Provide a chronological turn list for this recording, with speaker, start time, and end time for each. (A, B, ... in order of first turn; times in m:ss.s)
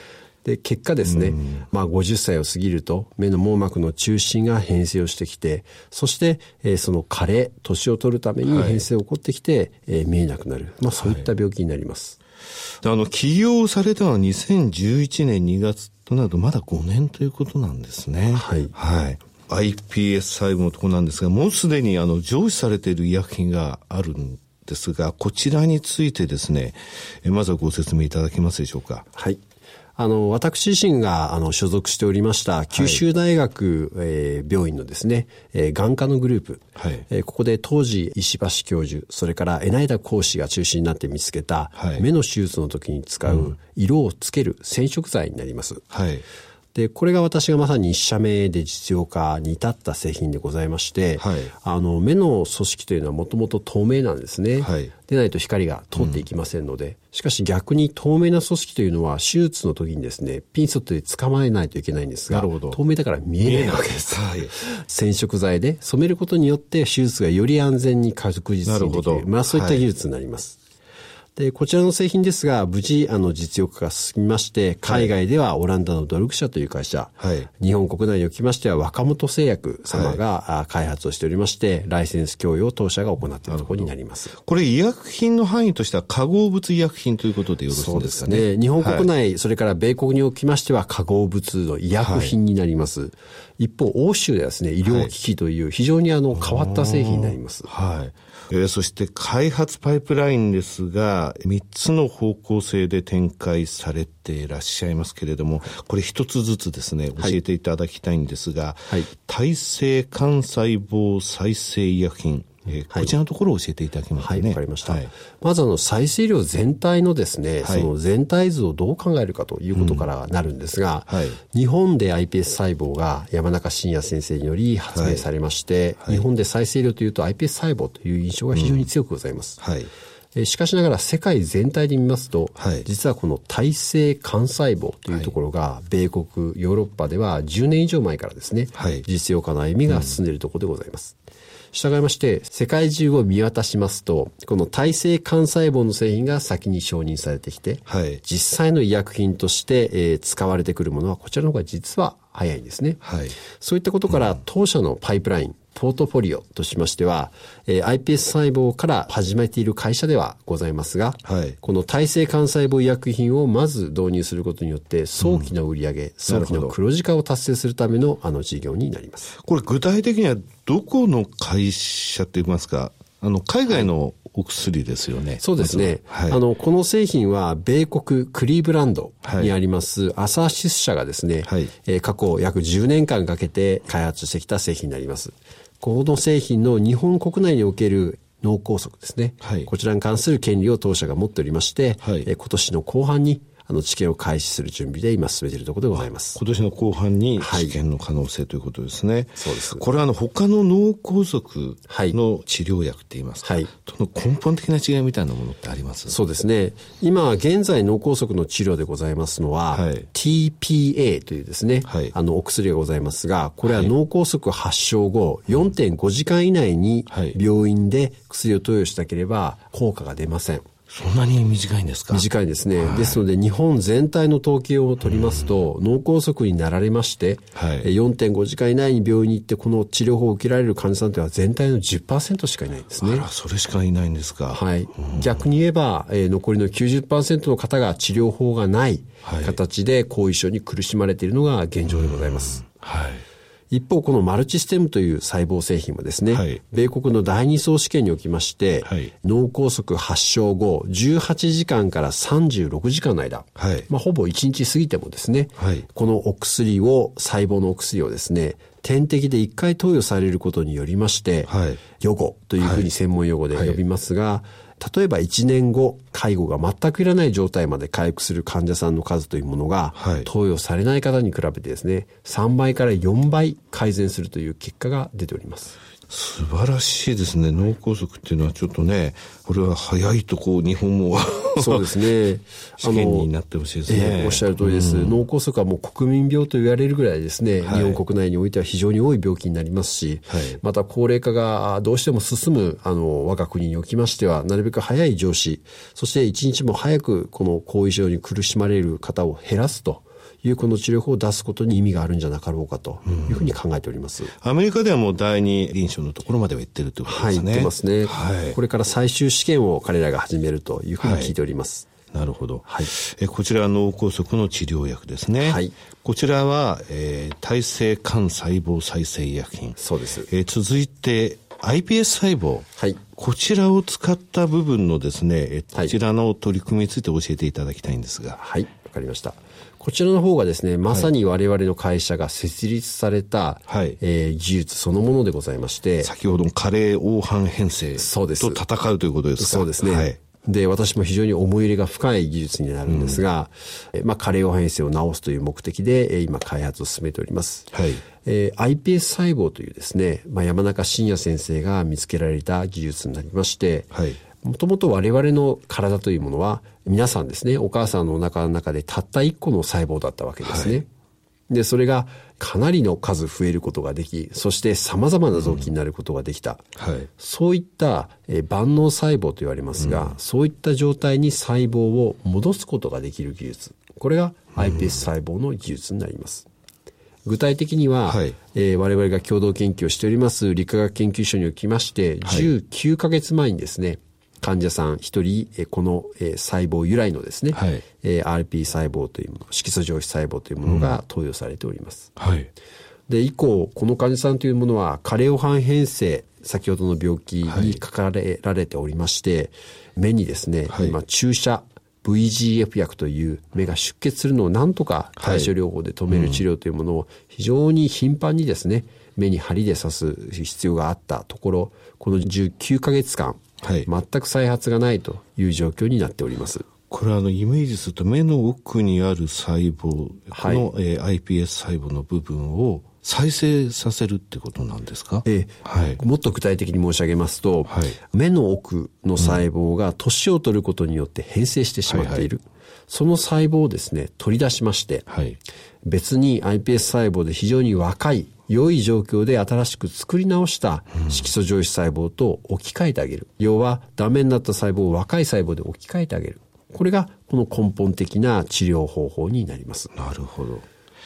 0:00.4-0:12.2 A
0:01.0-0:01.6 B
0:08.5-0:08.8 B
0:11.0-0:11.2 B
0:12.8-0:29.0 B
0:18.3-0:18.7 A
0:30.0-0:45.8 A
0:32.7-0:33.0 B
0:36.8-0:37.0 B
0:41.8-0:42.0 B
0:43.3-0:43.5 B
0:45.9-0:46.2 B
0:46.7-1:10.6 A
0:51.2-0:51.5 B
0:54.6-0:54.9 B
0:56.0-0:56.2 B
1:02.3-1:02.8 B
1:03.4-1:04.6 B
1:08.6-1:09.8 B
1:11.4-1:24.3 A
1:14.8-1:15.1 B
1:17.2-1:17.5 B
1:19.9-1:20.2 B
1:23.4-1:29.1 B
1:27.7-1:37.7 A
1:32.0-1:32.3 B
1:34.8-1:35.1 B
1:36.3-1:55.1 B
1:54.2-2:09.6 A
1:57.6-1:57.9 B
1:59.7-2:00.1 B
2:01.1-2:01.4 B
2:04.9-2:05.2 B
2:08.5-2:08.9 B
2:09.6-2:09.9 B
2:10.3-2:21.2 A
2:12.6-2:12.8 B
2:18.8-2:19.0 B
2:19.9-2:20.2 B
2:21.7-2:33.0 A
2:27.9-2:28.2 B
2:33.0-2:33.4 B
2:33.5-2:49.3 A
2:41.2-2:41.6 B
2:45.2-2:45.5 B
2:46.3-2:46.7 B
2:49.4-2:56.4 B
2:55.4-3:16.4 A
2:59.2-2:59.5 B
3:01.4-3:01.7 B
3:09.4-3:09.7 B
3:12.0-3:12.3 B
3:15.9-3:26.2 B
3:17.4-3:17.7 A
3:19.4-3:19.8 A
3:21.9-3:22.2 A
3:23.4-3:23.7 A
3:26.1-3:40.6 A
3:29.7-3:30.1 B
3:31.8-3:32.1 B
3:33.6-3:33.9 B
3:37.1-3:37.4 B
3:40.9-3:43.2 B
3:42.1-3:53.2 A
3:45.1-3:45.5 B
3:47.6-3:47.9 B
3:53.0-3:55.4 B
3:54.5-4:02.6 A
3:59.2-3:59.6 B
4:01.9-4:03.2 B
4:03.7-4:35.8 A
4:06.3-4:06.6 B
4:13.6-4:13.9 B
4:15.6-4:15.8 B
4:21.5-4:21.8 B
4:22.6-4:22.9 B
4:23.5-4:23.8 B
4:29.9-4:30.3 B
4:36.1-4:41.9 B
4:41.6-4:43.3 A
4:42.8-4:45.2 B
4:43.9-5:04.3 A
4:47.6-4:48.0 B
4:50.3-4:50.6 B
5:03.0-5:03.5 B
5:04.4-5:08.6 B
5:07.1-5:11.9 A
5:11.0-5:11.3 B
5:12.1-5:28.4 B
5:12.6-5:12.9 A
5:15.4-5:15.7 A
5:19.8-5:20.3 A
5:28.4-5:36.2 A
5:33.7-5:34.0 B
5:36.0-5:40.2 B
5:38.0-5:38.6 A
5:39.4-5:47.7 A
5:42.9-5:43.2 B
5:47.7-5:48.0 B
5:48.2-6:00.9 A
5:53.9-5:54.2 B
6:00.4-6:00.8 B
6:01.5-6:06.6 A
6:05.3-6:05.7 B
6:06.8-6:07.1 B
6:07.2-6:16.4 A
6:09.8-6:10.1 B
6:14.6-6:15.0 B
6:17.2-6:32.1 A
6:18.0-6:18.4 B
6:22.2-6:22.5 B
6:27.5-6:27.8 B
6:30.6-6:31.0 B
6:32.2-6:32.5 B
6:33.1-6:56.6 A
6:37.5-6:37.8 B
6:40.7-6:40.9 B
6:45.2-6:45.5 B
6:46.1-6:46.4 B
6:53.6-6:53.9 B
6:56.9-7:06.0 B
7:00.3-7:00.7 A
7:05.2-7:15.1 A
7:07.7-7:08.0 B
7:11.9-7:12.3 B
7:15.1-7:15.4 B
7:15.8-7:29.9 A
7:30.0-7:30.6 B